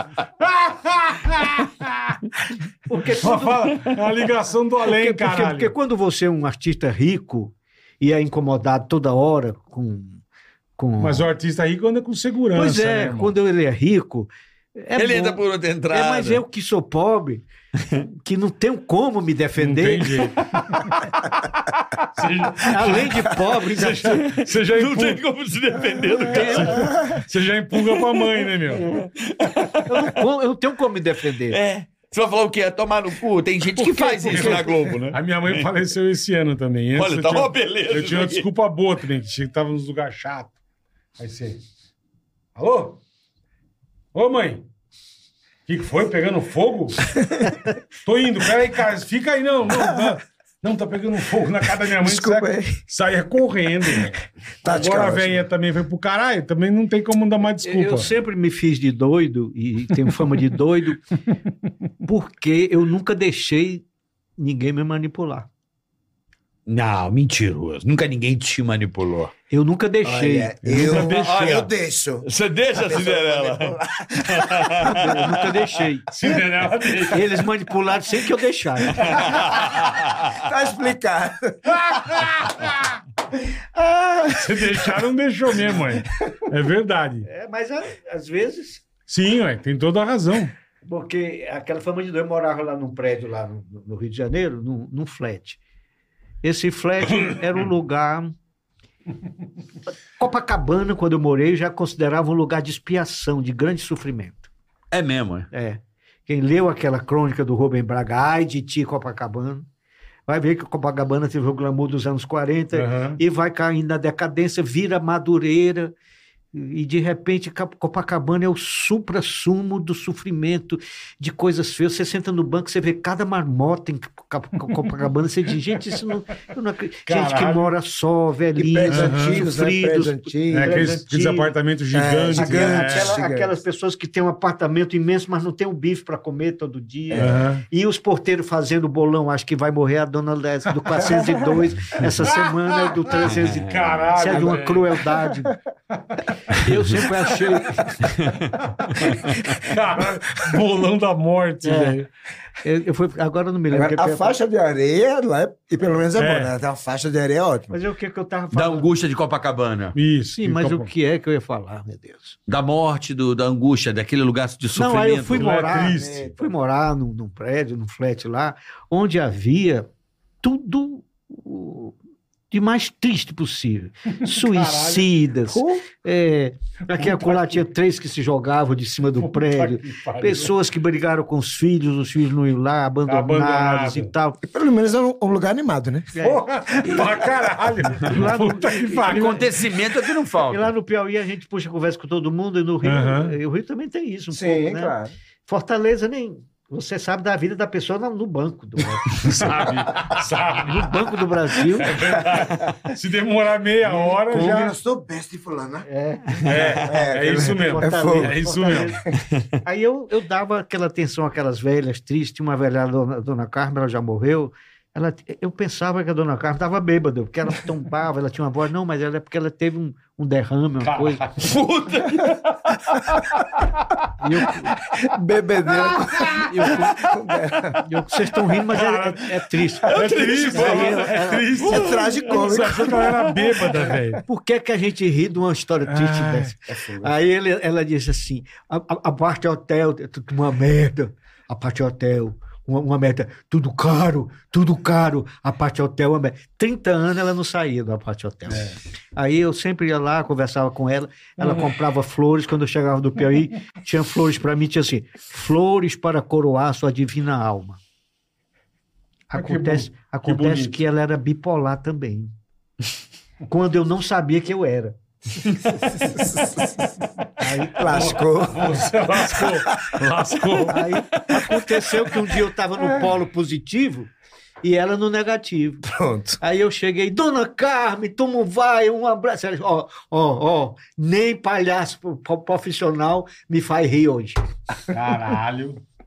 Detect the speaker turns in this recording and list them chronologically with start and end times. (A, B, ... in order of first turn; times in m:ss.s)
0:00.4-0:02.2 A
0:02.9-0:03.8 B
0:03.1-0:05.7 A
0:04.9-0:10.2 B
0:10.8-0:11.3 B
0:11.0-0:13.3 A
0:12.5-0:17.4 B
0:15.0-0:16.4 C
0:18.1-0:20.3 B
0:19.6-0:21.0 A
0:22.1-0:25.2 A
0:22.6-0:24.2 B
0:24.1-0:26.9 C
0:26.2-0:26.9 B
0:26.3-0:28.9 A
0:26.8-0:27.2 D
0:27.8-0:30.2 C
0:29.8-0:31.6 B
0:31.5-0:35.7 C
0:33.8-0:34.8 B
0:34.3-0:40.5 A
0:36.9-0:38.5 C
0:41.2-0:41.6 A
0:42.6-0:43.0 A
0:44.1-0:44.6 A
0:45.7-0:47.1 A
0:47.1-0:47.5 D
0:48.0-0:58.1 A
0:49.7-0:50.1 D
0:52.0-0:52.8 D
0:54.6-0:55.4 D
0:57.6-1:01.0 B
1:02.0-1:03.8 B
1:04.4-1:05.5 B
1:06.7-1:09.3 C
1:09.5-1:11.1 B
1:10.0-1:15.0 D
1:10.6-1:11.4 A
1:10.9-1:11.7 C
1:12.2-1:15.6 C
1:14.8-1:16.0 B
1:16.1-1:17.2 A
1:17.1-1:19.2 B
1:19.0-1:19.3 A
1:19.0-1:20.4 C
1:20.2-1:22.3 D
1:21.8-1:23.0 A
1:23.7-1:24.8 D
1:24.3-1:27.2 A
1:27.2-1:28.8 B
1:29.1-1:30.5 A
1:30.8-1:35.6 B
1:36.4-1:38.3 B
1:40.2-1:44.5 B
1:44.9-1:45.5 C
1:45.5-1:49.6 B
1:50.3-1:55.9 B
1:52.7-1:53.2 A
1:56.5-2:11.5 B
2:07.1-2:07.7 A
2:08.6-2:10.9 D
2:08.9-2:09.4 A
2:10.5-2:13.1 A
2:11.9-2:13.6 D
2:12.3-2:25.6 B
2:17.1-2:17.4 D
2:17.2-2:17.6 A
2:22.0-2:25.1 A
2:23.2-2:24.0 C
2:26.5-2:28.1 B
2:28.2-2:29.2 C
2:28.8-2:32.1 A
2:31.6-2:32.0 B
2:32.6-2:34.4 B
2:33.7-2:37.8 D
2:36.2-2:36.5 A
2:37.7-2:38.9 B
2:38.5-2:40.0 C
2:39.9-2:40.9 A
2:40.3-2:42.4 B
2:42.5-2:45.6 C
2:44.7-2:49.9 B
2:45.3-2:46.3 A
2:45.6-2:46.5 D
2:50.4-2:51.9 B
2:52.5-3:04.4 B
2:54.2-2:55.1 A
2:56.9-2:57.6 A
2:59.2-3:00.5 A
3:03.1-3:04.1 A
3:04.4-3:06.1 D
3:06.1-3:07.2 B
3:06.2-3:09.5 A
3:08.0-3:09.5 B
3:09.1-3:10.7 C
3:10.5-3:15.0 B
3:12.8-3:13.3 A
3:14.3-3:15.1 D
3:15.5-3:19.2 B
3:19.1-3:21.0 A
3:20.6-3:22.0 B
3:21.6-3:24.7 A
3:22.0-3:22.5 D
3:23.8-3:28.4 D
3:25.8-3:29.0 B
3:26.4-3:29.0 A
3:29.6-3:41.2 B
3:40.8-3:41.5 A
3:41.4-3:43.3 C
3:44.2-3:44.7 B
3:44.9-3:47.8 D
3:46.4-3:47.0 B
3:47.8-3:52.8 B
3:48.6-3:54.2 A
3:49.8-3:53.7 C
3:51.6-3:54.0 D
3:54.2-4:17.8 B
3:55.9-3:56.5 A
3:56.7-3:57.1 D
4:08.5-4:08.8 A
4:11.4-4:11.7 A
4:19.3-4:22.3 B
4:19.3-4:20.8 A
4:23.5-4:25.0 B
4:26.0-4:26.9 D
4:27.4-4:28.2 B
4:27.6-4:30.0 D
4:27.8-4:31.4 A
4:30.7-4:34.1 B
4:34.6-4:35.8 B
4:35.8-4:36.4 D
4:36.4-4:44.4 B
4:44.9-4:45.8 A